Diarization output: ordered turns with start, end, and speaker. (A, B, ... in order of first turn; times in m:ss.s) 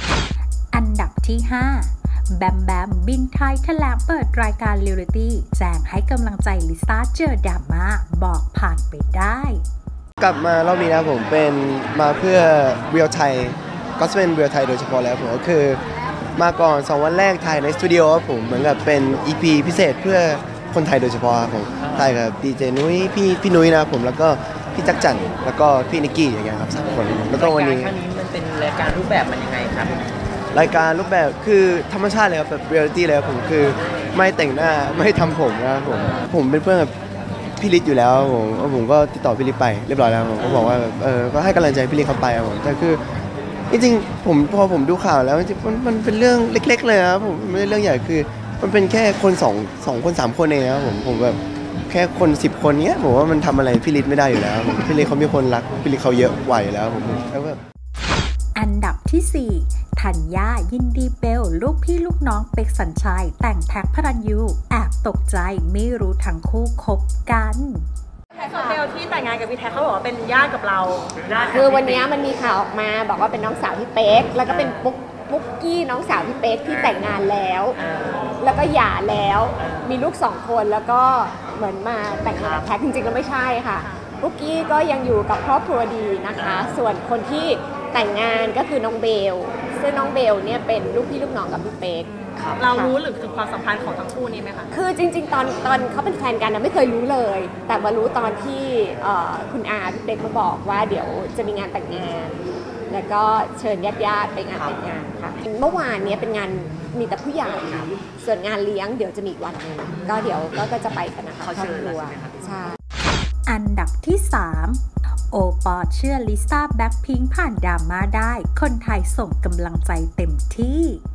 0:00.7-0:09.6 A
0:10.2-0:15.8 B
0:16.4-0:28.0 B
0:27.4-0:29.9 C
0:30.5-0:36.9 B
0:37.6-0:43.0 B
0:43.7-0:57.6 B
0:58.5-1:07.8 A
1:08.5-1:11.0 D
1:11.5-1:17.8 E
1:18.4-1:32.1 E
1:32.1-1:34.6 D
1:34.7-1:52.8 E
1:53.4-2:01.0 A